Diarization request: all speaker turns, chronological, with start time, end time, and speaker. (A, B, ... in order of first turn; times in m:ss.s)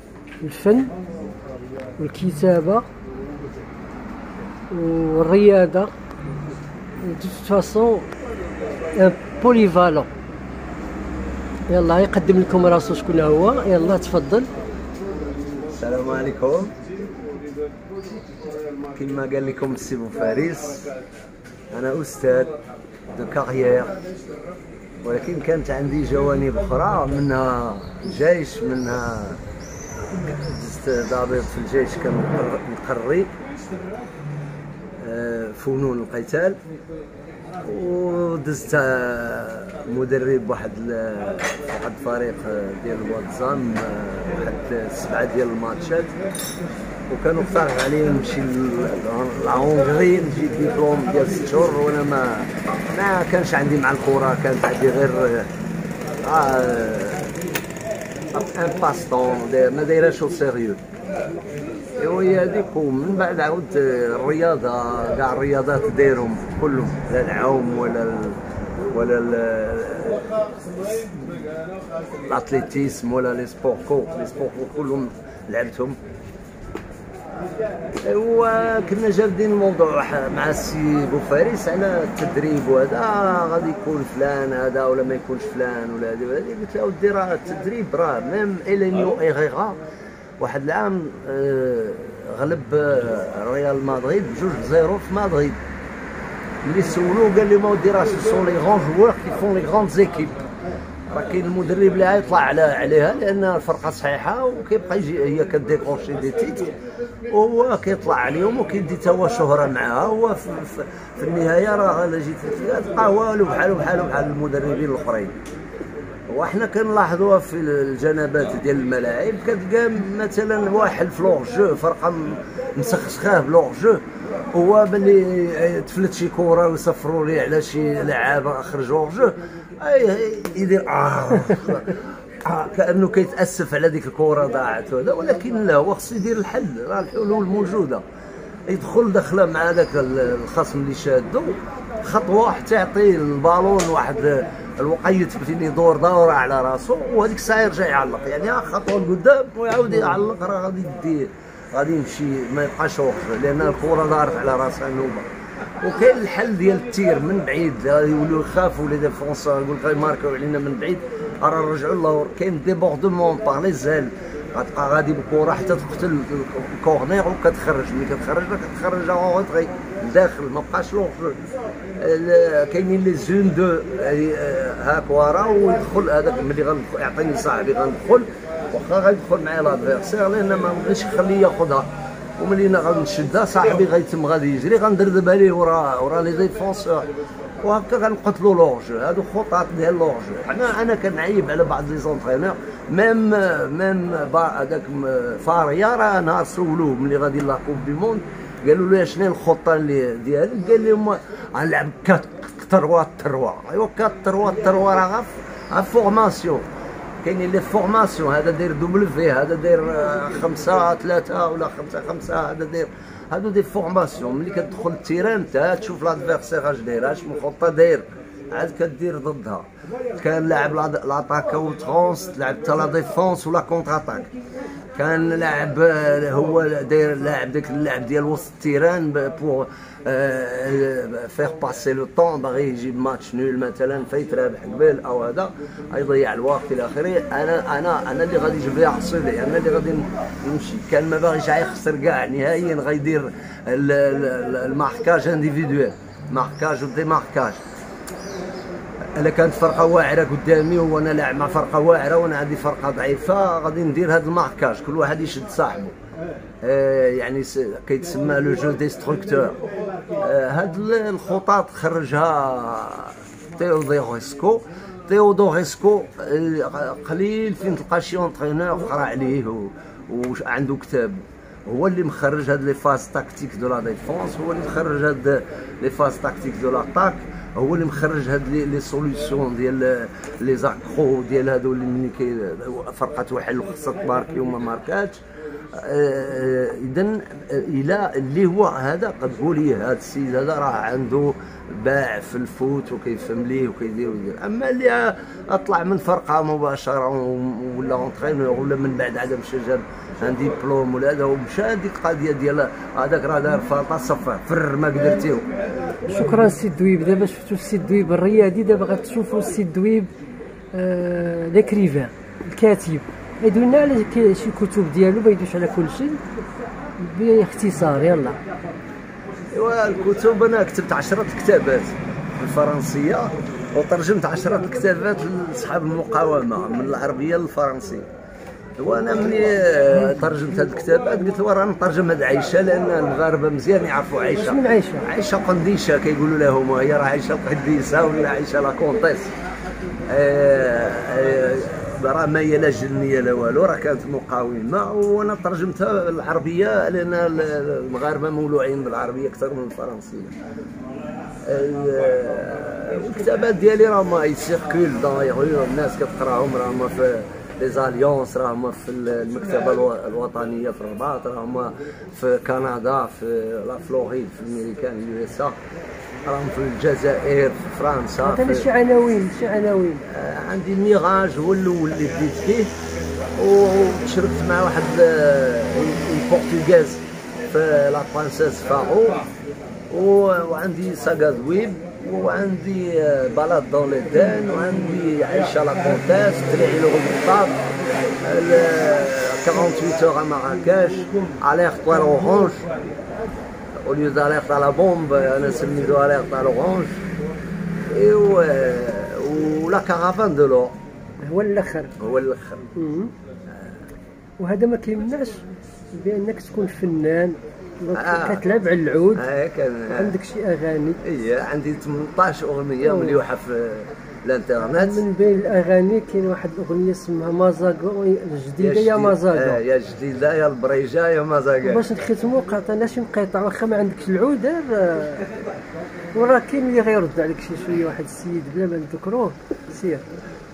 0:00.4-0:00.9 A
0:02.0-0:02.9 A
0:04.7-0:05.9 A
0:07.0-0:08.1 A
0:08.9-0:10.1 A
0:11.7-0:14.5 A
0:15.7-0:16.7 B
0:18.9-0:20.9 B
0:21.7-0:22.5 B
0:23.1-0:23.9 B
0:25.0-0:29.4 B
0:30.1-0:33.3 B
0:35.0-0:36.6 B
0:37.6-0:46.1 B
0:47.1-0:55.5 B
0:56.2-0:57.3 B
0:58.3-1:00.8 B
1:02.0-1:08.4 B
1:08.9-1:10.2 B
1:12.2-1:16.0 B
1:18.0-1:29.8 B
1:30.4-1:35.6 B
1:36.6-1:40.4 B
1:41.1-1:46.7 B
1:47.3-1:55.4 B
1:56.3-2:04.0 B
2:04.5-2:18.0 B
2:18.7-2:35.3 B
2:35.8-2:51.4 B
2:52.0-3:07.1 B
3:07.6-3:26.7 B
3:27.2-3:44.3 B
3:44.9-4:07.6 B
4:09.1-4:16.0 B
4:16.6-4:19.6 B
4:20.2-4:45.2 B
4:45.7-5:05.5 B
5:06.1-5:10.1 A
5:10.7-5:16.2 A
5:17.0-5:18.4 A
5:19.5-5:28.1 B
5:28.8-5:39.3 B
5:34.4-5:35.1 A
5:40.1-5:50.3 B
5:51.4-6:05.6 B
6:06.2-6:08.6 B
6:08.2-6:10.0 A
6:10.1-6:12.7 B
6:13.4-6:19.2 B
6:19.9-6:27.7 B
6:28.2-6:32.6 B
6:33.8-6:37.0 B
6:37.9-6:40.7 B
6:41.2-6:41.9 A
6:42.0-6:42.7 B
6:42.8-6:43.1 A
6:43.5-6:43.8 B
6:44.4-6:45.4 A
6:45.9-6:49.2 A
6:47.9-6:48.4 B
6:49.1-6:50.1 B
6:49.9-6:51.0 A
6:51.0-6:55.0 B
6:52.8-6:53.2 A
6:54.7-6:59.6 A
6:58.6-7:01.8 B
7:01.6-7:05.3 A
7:06.1-7:10.0 A